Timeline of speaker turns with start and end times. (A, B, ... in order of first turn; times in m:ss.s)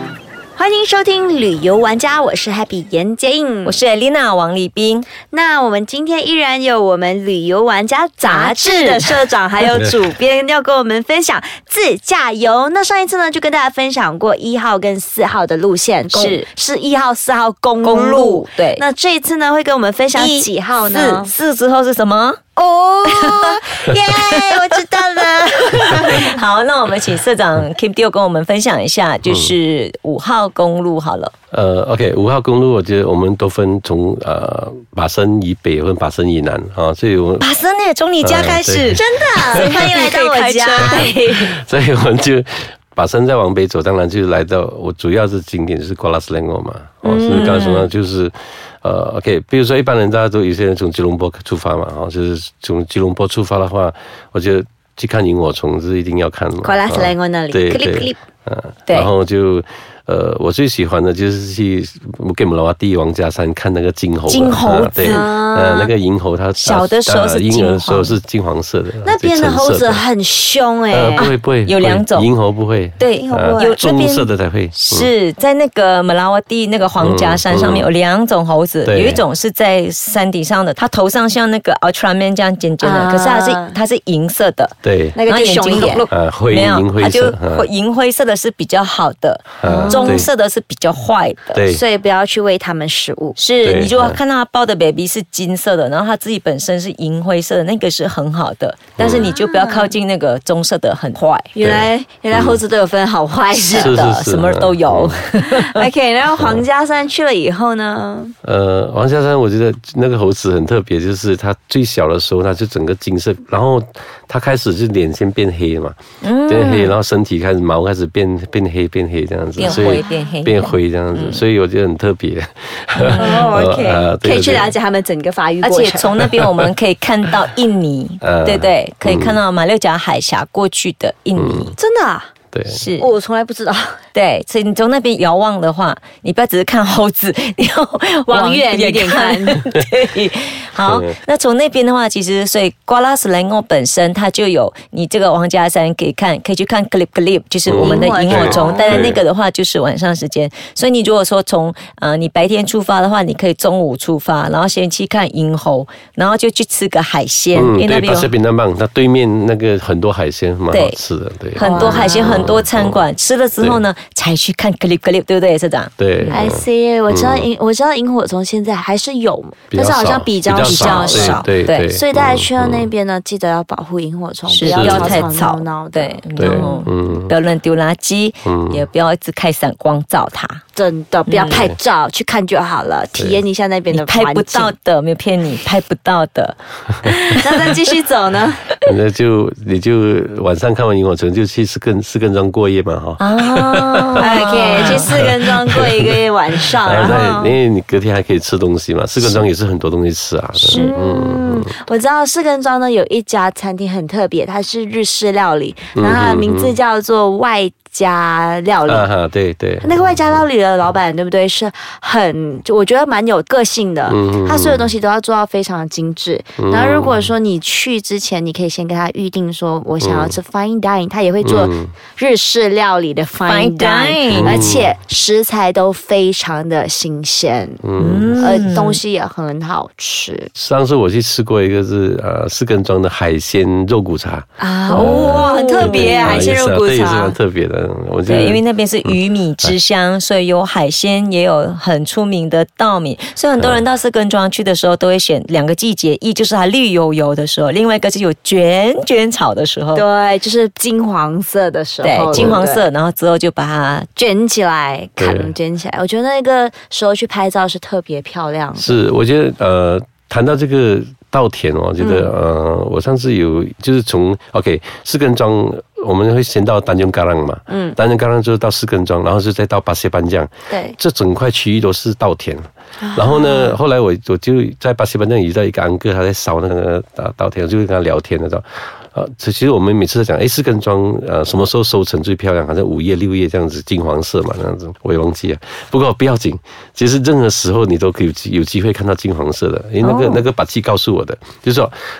0:00.5-0:03.8 A
0:03.6-0:05.1 B
0:05.2-0:21.3 A
0:08.2-0:09.1 B
0:16.1-0:16.5 B
0:17.8-0:18.8 B
0:20.1-0:22.4 B
0:22.6-0:26.3 A
0:23.1-0:24.8 B
0:25.5-0:31.3 B
0:29.2-0:29.5 C
0:31.5-0:37.5 C
0:37.4-0:41.5 B
0:38.2-0:39.8 C
0:39.0-0:41.5 A
0:40.8-1:10.0 C
0:47.0-0:47.6 A
0:47.3-0:47.9 B
0:56.6-0:58.2 A
1:04.3-1:05.3 B
1:05.0-1:05.9 A
1:06.6-1:08.2 B
1:09.0-1:11.3 A
1:10.9-1:15.1 C
1:11.2-1:12.3 B
1:13.0-1:24.7 B
1:13.2-1:13.8 A
1:17.0-1:17.9 C
1:18.8-1:19.2 C
1:22.8-1:23.8 A
1:24.8-1:25.2 C
1:25.2-1:26.0 A
1:25.2-1:31.6 B
1:26.1-1:27.7 C
1:29.6-1:30.3 C
1:29.6-1:30.3 A
1:31.5-1:31.8 C
1:31.6-1:33.4 A
1:33.4-1:41.5 B
1:33.6-1:34.2 C
1:39.0-1:39.3 C
1:39.1-1:39.9 A
1:41.5-1:44.0 A
1:41.6-1:42.6 C
1:43.5-1:45.9 B
1:43.7-1:45.2 C
1:45.4-1:48.3 A
1:46.4-1:46.6 C
1:48.4-2:04.7 C
1:56.2-1:56.9 B
1:59.6-2:01.4 B
1:59.6-2:00.1 A
2:03.0-2:03.5 B
2:03.2-2:06.2 A
2:05.6-2:11.8 B
2:06.2-2:06.7 C
2:08.2-2:09.4 C
2:11.3-2:11.7 C
2:11.8-2:12.3 A
2:12.5-2:12.8 C
2:12.7-2:13.1 B
2:13.0-2:14.0 A
2:14.1-2:38.3 B
2:18.3-2:19.6 A
2:20.8-2:21.1 C
2:27.7-2:29.2 C
2:27.8-2:29.0 A
2:37.5-2:43.0 C
2:40.7-2:41.0 B
2:41.6-2:46.4 B
2:41.6-2:42.6 A
2:43.6-2:43.8 C
2:46.0-2:47.5 C
2:46.3-2:56.8 A
2:49.7-2:52.9 C
2:50.6-2:51.9 B
2:54.5-3:00.6 B
2:54.6-2:55.2 C
2:56.4-2:57.3 C
2:58.4-2:58.8 C
3:00.7-3:04.7 A
3:01.3-3:01.7 B
3:01.5-3:01.7 C
3:03.2-3:03.4 C
3:03.9-3:07.7 B
3:07.0-3:08.7 A
3:08.8-3:16.2 C
3:13.2-3:15.0 B
3:14.2-3:17.6 A
3:16.8-3:21.8 C
3:20.6-3:20.9 B
3:20.7-3:29.1 A
3:25.9-3:26.8 C
3:28.9-3:30.4 C
3:29.8-3:47.9 A
3:34.1-3:34.9 C
3:36.6-3:37.3 C
3:40.0-3:40.4 C
3:41.4-3:41.9 C
3:43.4-3:44.6 B
3:44.3-3:44.9 C
3:47.8-3:48.6 C
3:48.0-3:49.0 B
3:48.4-3:50.5 A
3:50.5-3:59.7 C
3:54.6-3:57.4 A
3:54.9-3:56.4 B
3:58.2-4:10.0 B
4:09.9-4:12.8 A
4:12.0-4:14.1 B
4:12.3-4:12.6 C
4:14.2-4:19.0 A
4:15.2-4:15.5 C
4:18.8-4:51.9 C
4:22.0-4:22.3 A
4:27.7-4:28.0 A
4:30.7-4:31.0 A
4:33.0-4:33.8 A
4:50.0-4:50.4 A